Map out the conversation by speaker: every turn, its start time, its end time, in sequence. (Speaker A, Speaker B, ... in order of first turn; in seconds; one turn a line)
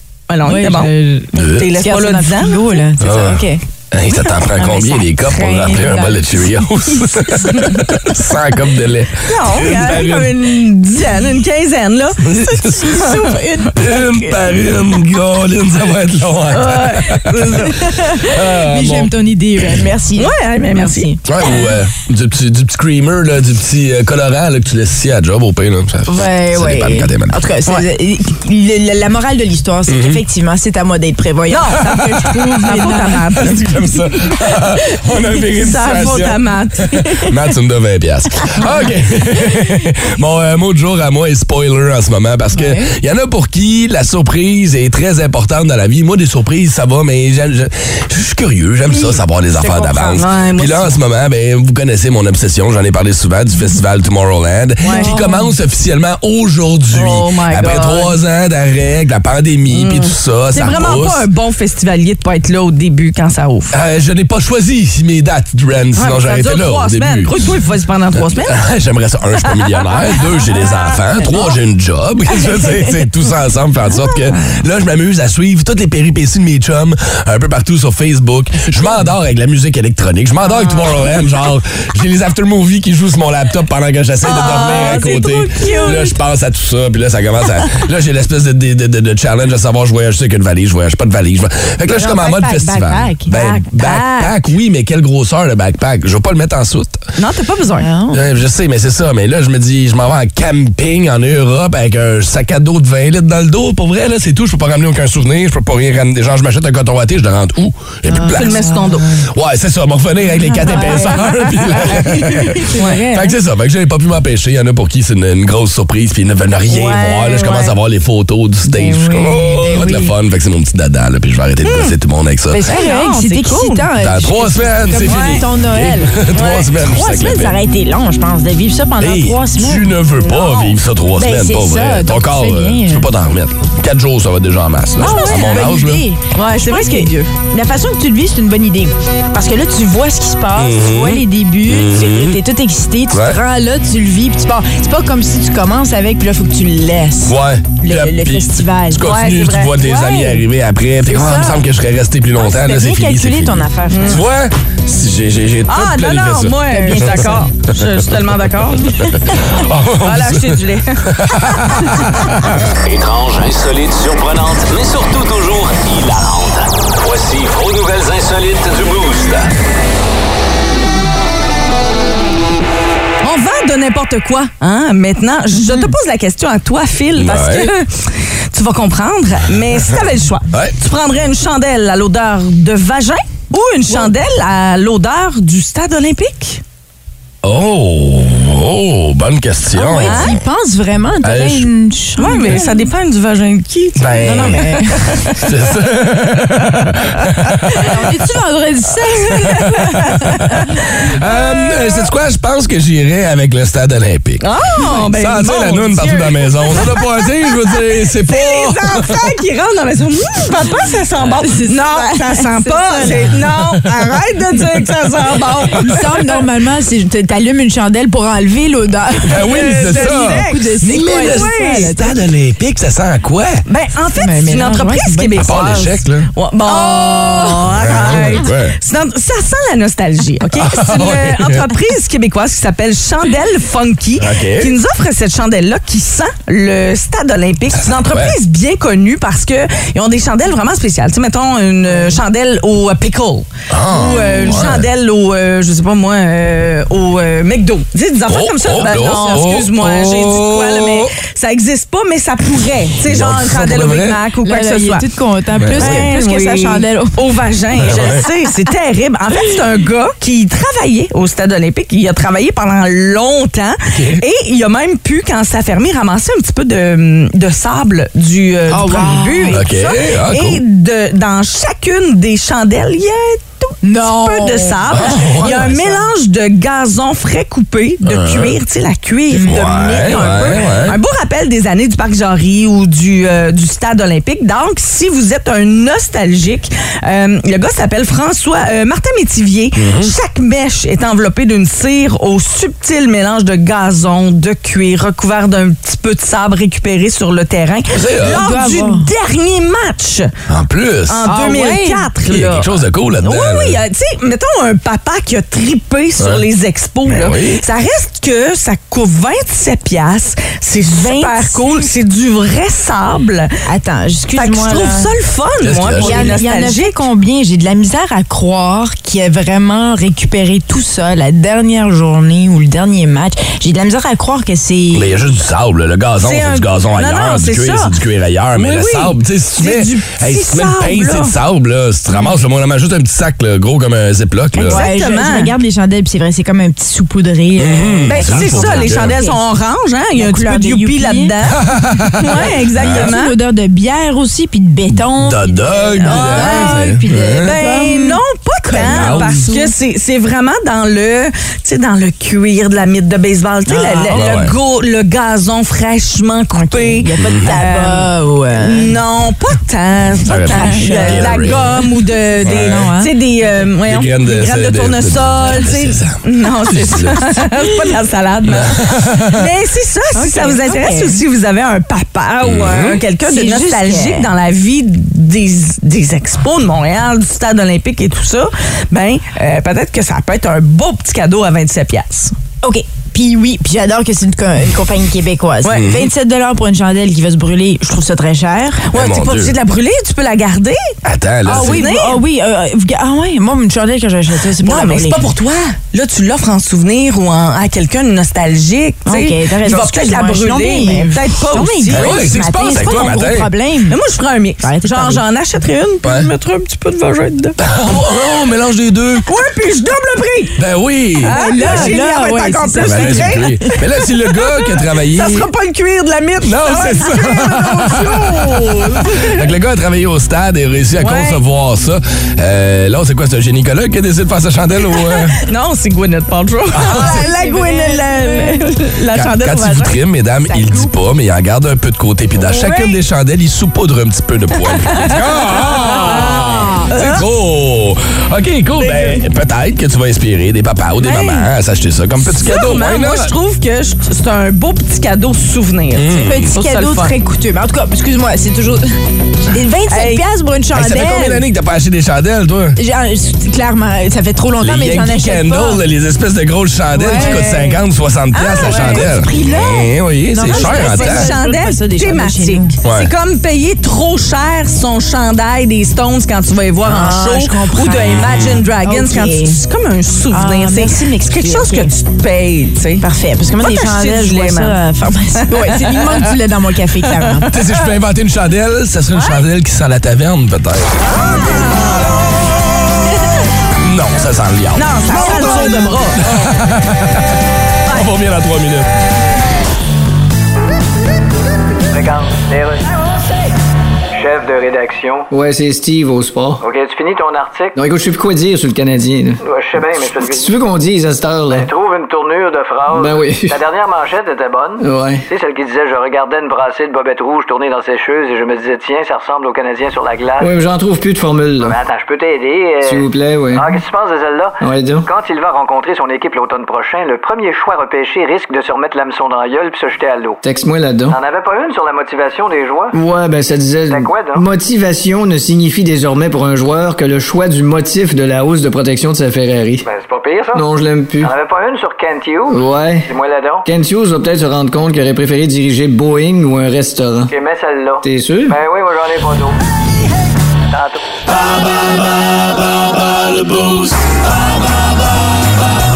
Speaker A: 0.3-2.7
Speaker B: 0.4-3.6
Speaker C: 1.3-1.7
Speaker C: 3.0-10.6
Speaker B: 4.5-6.5
Speaker A: 7.5-7.7
Speaker A: 9.2-13.4
Speaker C: 12.3-13.1
Speaker B: 12.9-14.6
Speaker C: 13.7-19.1
Speaker A: 16.5-17.8
Speaker B: 17.8-21.6
Speaker A: 20.2-21.1
Speaker C: 21.3-27.4
Speaker B: 26.1-33.2
Speaker C: 29.9-30.2
Speaker A: 31.5-32.0
Speaker C: 31.9-61.2
Speaker A: 32.6-34.3
Speaker A: 35.4-37.3
Speaker B: 42.5-42.9
Speaker B: 48.9-50.3
Speaker A: 50.2-51.0
Speaker A: 54.8-55.2
Speaker B: 54.8-55.5
Speaker A: 56.9-58.1
Speaker A: 59.7-63.7
Speaker C: 63.7-67.5
Speaker A: 66.0-68.6
Speaker C: 68.2-97.0
Speaker A: 69.5-70.9
Speaker A: 80.5-80.8
Speaker A: 84.2-86.1
Speaker B: 91.9-93.3
Speaker A: 93.3-94.5
Speaker A: 97.2-97.9
Speaker B: 97.8-98.2
Speaker C: 98.1-108.7
Speaker B: 108.1-109.2
Speaker A: 108.3-109.1
Speaker C: 109.2-122.7
Speaker B: 110.4-113.3
Speaker A: 110.7-111.1
Speaker A: 112.7-113.1
Speaker A: 116.7-117.7
Speaker B: 116.8-117.5
Speaker B: 118.7-120.1
Speaker A: 121.6-121.9
Speaker B: 122.5-130.0
Speaker A: 122.7-123.9
Speaker C: 124.0-127.6
Speaker A: 125.0-125.4
Speaker A: 126.3-126.7
Speaker C: 129.0-136.0
Speaker A: 130.2-130.8
Speaker B: 131.2-133.1
Speaker B: 135.0-149.1
Speaker A: 135.0-135.6
Speaker A: 136.3-137.3
Speaker C: 140.6-142.4
Speaker C: 143.1-143.4
Speaker C: 147.2-157.3
Speaker A: 149.0-149.7
Speaker B: 149.8-150.4
Speaker B: 151.0-151.7
Speaker B: 152.3-154.2
Speaker A: 153.9-154.2
Speaker A: 155.7-159.1
Speaker B: 156.7-157.4
Speaker C: 159.1-162.6
Speaker A: 160.0-162.0
Speaker D: 162.8-169.5
Speaker A: 173.2-186.6
Speaker C: 177.2-177.7
Speaker C: 187.4-190.4
Speaker B: 189.7-192.8
Speaker A: 190.0-190.3
Speaker C: 191.2-191.7
Speaker A: 192.2-195.4
Speaker C: 194.0-197.9
Speaker B: 194.2-195.0
Speaker B: 197.7-200.7
Speaker A: 199.1-201.8
Speaker C: 200.2-209.3
Speaker A: 204.4-216.0
Speaker B: 211.4-213.4
Speaker B: 215.8-222.2
Speaker A: 219.2-221.9
Speaker C: 219.3-223.6
Speaker A: 223.7-255.1
Speaker B: 224.1-225.6
Speaker C: 225.4-226.3
Speaker B: 226.7-228.3
Speaker C: 227.7-228.8
Speaker C: 230.5-231.7
Speaker C: 234.2-234.7
Speaker C: 237.7-238.3
Speaker C: 243.7-244.9
Speaker C: 248.3-251.1
Speaker B: 249.1-249.3
Speaker C: 253.0-254.2
Speaker B: 254.4-257.2
Speaker C: 255.6-256.0
Speaker A: 255.7-300.3
Speaker C: 257.8-258.2
Speaker C: 263.9-264.2
Speaker B: 268.7-269.6
Speaker C: 269.5-270.6
Speaker B: 273.8-276.1
Speaker C: 274.9-275.7
Speaker C: 278.1-278.5
Speaker B: 279.3-280.6
Speaker C: 279.4-281.0
Speaker C: 289.8-290.1
Speaker C: 297.9-298.4
Speaker B: 298.2-299.1
Speaker C: 300.5-301.2
Speaker A: 301.1-313.5
Speaker B: 301.2-302.1
Speaker C: 302.2-303.8
Speaker C: 306.2-306.4
Speaker C: 307.1-307.6
Speaker B: 310.9-311.8
Speaker B: 313.7-315.1
Speaker A: 314.4-317.0
Speaker C: 315.6-316.4
Speaker B: 315.9-325.2
Speaker C: 324.9-334.8
Speaker A: 326.2-327.9
Speaker A: 328.6-331.3
Speaker B: 334.5-339.4
Speaker A: 334.7-335.5
Speaker C: 337.6-339.2
Speaker A: 338.1-341.6
Speaker B: 340.1-341.3
Speaker C: 341.6-343.1
Speaker B: 342.1-349.7
Speaker A: 342.2-343.3
Speaker C: 345.1-347.5
Speaker A: 346.0-382.3
Speaker C: 348.7-349.5
Speaker B: 353.7-354.2
Speaker C: 354.1-354.5
Speaker B: 356.5-359.0
Speaker C: 357.2-357.6
Speaker C: 360.2-361.8
Speaker B: 360.3-363.1
Speaker C: 362.4-362.9
Speaker C: 363.8-367.3
Speaker C: 368.5-369.4
Speaker B: 370.1-371.2
Speaker C: 372.4-373.0
Speaker B: 373.2-374.3
Speaker B: 382.6-388.8
Speaker C: 385.7-386.0
Speaker A: 388.9-390.9
Speaker C: 388.9-389.5
Speaker C: 391.0-391.8
Speaker B: 391.4-395.3
Speaker A: 391.5-392.2
Speaker A: 394.6-402.2
Speaker B: 399.1-404.0
Speaker C: 401.9-403.5
Speaker A: 403.9-407.6
Speaker B: 404.6-405.2
Speaker C: 406.0-406.3
Speaker C: 407.6-409.2
Speaker A: 409.2-410.6
Speaker C: 410.6-411.9
Speaker A: 411.2-413.8
Speaker B: 411.2-413.8
Speaker C: 412.8-415.5
Speaker A: 414.3-419.4
Speaker C: 416.4-425.4
Speaker A: 421.0-421.4
Speaker A: 424.8-429.9
Speaker C: 426.7-427.2
Speaker B: 426.8-428.7
Speaker C: 429.1-443.3
Speaker B: 430.4-430.9
Speaker A: 432.4-433.0
Speaker A: 434.8-435.2
Speaker B: 435.8-436.9
Speaker A: 435.8-437.2
Speaker A: 438.8-439.1
Speaker A: 441.0-441.5
Speaker A: 442.2-447.1
Speaker C: 445.9-446.5
Speaker B: 446.1-448.9
Speaker B: 449.4-451.4
Speaker A: 449.9-450.2
Speaker C: 450.7-452.8
Speaker B: 452.8-455.8
Speaker C: 454.6-461.3
Speaker B: 456.9-457.7
Speaker A: 457.1-457.8
Speaker B: 458.3-462.8
Speaker A: 458.6-459.1
Speaker A: 460.5-473.1
Speaker C: 462.8-463.1
Speaker B: 466.8-469.6
Speaker B: 470.3-471.9
Speaker B: 473.0-477.5
Speaker A: 473.6-474.8
Speaker A: 475.4-476.2
Speaker C: 477.5-481.2
Speaker A: 481.2-482.1
Speaker C: 483.8-485.6
Speaker A: 484.7-486.2
Speaker C: 486.2-487.3
Speaker C: 487.9-488.9
Speaker E: 491.9-492.8
Speaker E: 494.1-495.3
Speaker F: 495.3-496.6
Speaker E: 496.6-497.8
Speaker F: 497.7-499.4
Speaker E: 499.4-500.5
Speaker F: 500.1-501.7
Speaker E: 501.5-510.5
Speaker F: 502.9-503.6
Speaker F: 504.8-505.2
Speaker F: 510.4-511.8
Speaker E: 511.6-520.4
Speaker F: 512.8-513.8
Speaker F: 514.6-515.1
Speaker F: 520.4-521.2
Speaker E: 521.1-523.0
Speaker F: 522.9-529.9
Speaker E: 523.9-524.5
Speaker E: 529.8-530.6
Speaker F: 530.5-531.3
Speaker E: 531.2-533.7
Speaker F: 532.5-533.1
Speaker F: 533.6-537.3
Speaker E: 537.3-539.6
Speaker F: 538.0-538.6
Speaker E: 540.7-541.0